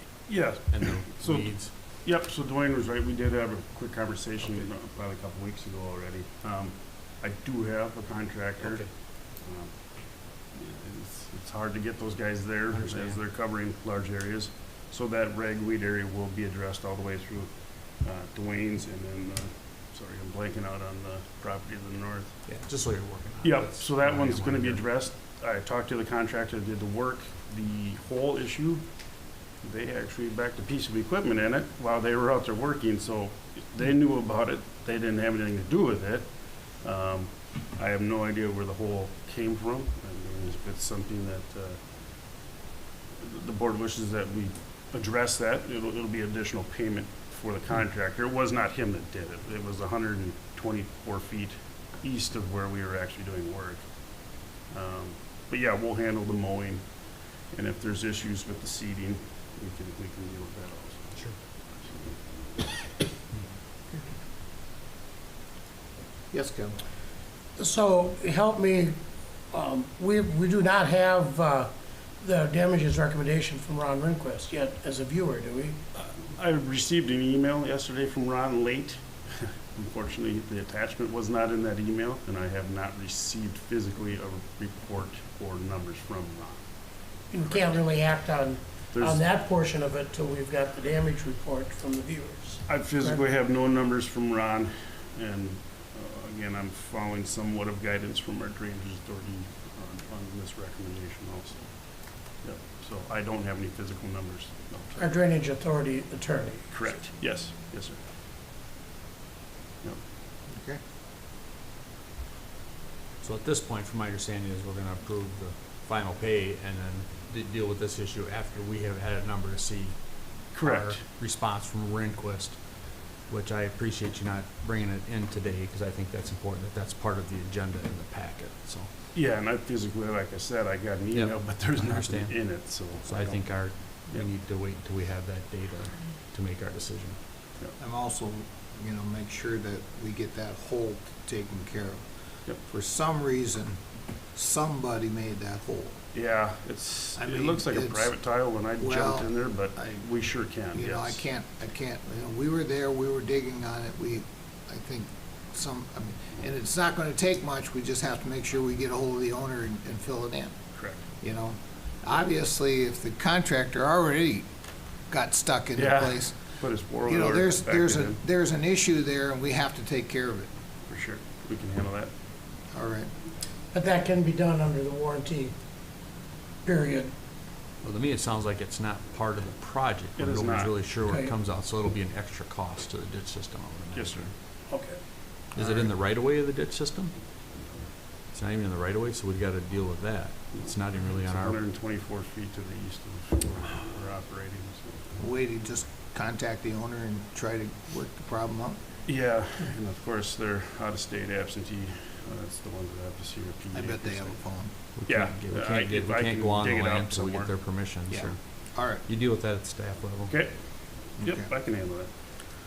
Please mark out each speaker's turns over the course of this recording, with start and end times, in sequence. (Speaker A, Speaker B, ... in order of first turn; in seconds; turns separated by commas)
Speaker A: 0.3-22.4, Speaker B: 0.7-1.7, Speaker B: 8.6-8.9, Speaker B: 12.7-13.2, Speaker B: 22.4-24.8, Speaker A: 23.4-28.9, Speaker A: 29.6-41.8, Speaker A: 43.2-56.8, Speaker A: 57.5-61.2, Speaker C: 66.3-66.8, Speaker D: 67.6-69.0, Speaker D: 69.5-75.8, Speaker A: 76.0-86.6, Speaker D: 87.3-93.2, Speaker A: 88.9-89.2, Speaker A: 92.7-101.7, Speaker A: 102.3-105.1, Speaker D: 105.0-106.9, Speaker A: 106.7-108.0, Speaker C: 110.5-110.8, Speaker B: 113.2-122.6, Speaker A: 120.5-121.0, Speaker B: 123.3-128.9, Speaker A: 129.1-133.6, Speaker B: 131.1-132.4, Speaker B: 132.9-137.2, Speaker C: 137.8-142.0, Speaker C: 142.7-143.8, Speaker C: 144.3-146.0, Speaker A: 146.1-151.2, Speaker C: 147.2-148.1, Speaker C: 148.8-149.3, Speaker C: 150.7-160.5, Speaker A: 160.7-161.0, Speaker C: 161.2-164.5, Speaker C: 165.1-166.4, Speaker A: 165.8-168.2, Speaker C: 167.1-170.5, Speaker A: 170.9-172.1, Speaker C: 172.7-173.1, Speaker D: 173.7-175.5, Speaker D: 176.6-177.1, Speaker B: 177.8-184.3, Speaker A: 180.2-180.8, Speaker D: 181.1-181.3, Speaker A: 183.9-185.0, Speaker C: 185.5-185.9, Speaker B: 185.5-187.1, Speaker B: 188.3-191.6, Speaker A: 190.6-195.1, Speaker C: 195.2-198.8, Speaker A: 199.1-204.4, Speaker C: 203.7-204.7, Speaker B: 204.9-208.4, Speaker A: 205.1-207.5, Speaker C: 208.1-209.0, Speaker B: 209.0-210.3, Speaker A: 210.3-212.1, Speaker C: 211.2-211.5